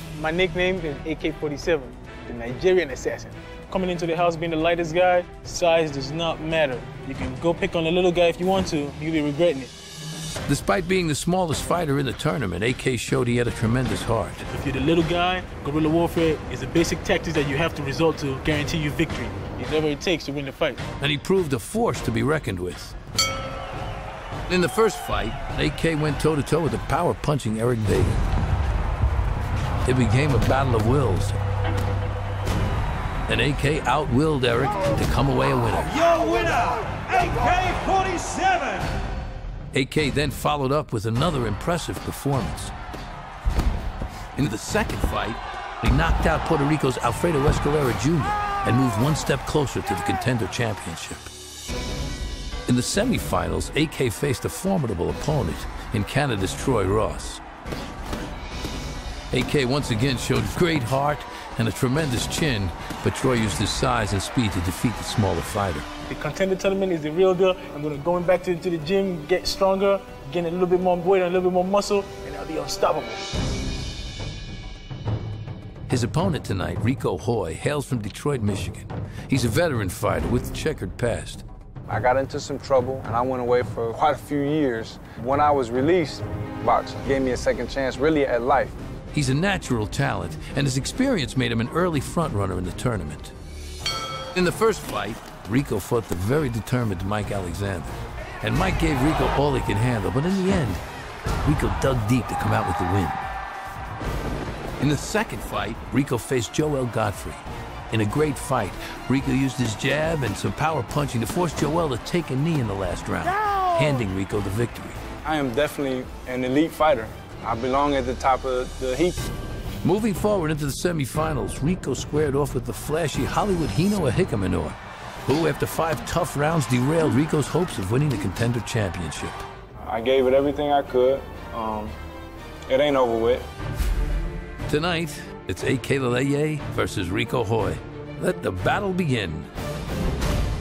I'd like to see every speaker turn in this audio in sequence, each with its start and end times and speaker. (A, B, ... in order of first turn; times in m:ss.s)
0:00.1-0:09.7 A
0:10.5-0:14.4 B
0:14.5-0:20.8 A
0:21.0-0:22.9 B
0:24.5-0:28.2 B
0:29.8-0:31.3 B
0:33.3-0:36.0 B
0:36.0-0:38.9 C
0:39.7-0:42.7 B
0:44.4-0:51.3 B
0:52.7-0:57.4 B
0:59.3-1:05.9 B
1:06.1-1:13.3 A
1:15.9-1:21.4 B
1:21.9-1:28.8 D
1:29.1-1:33.3 B
1:34.3-1:40.8 B
1:41.4-1:43.2 B
1:44.8-1:55.0 B
1:55.2-1:59.2 D
1:59.8-2:09.4 B
2:09.8-2:11.9 D
2:12.7-2:13.4 D
2:14.7-2:19.5 B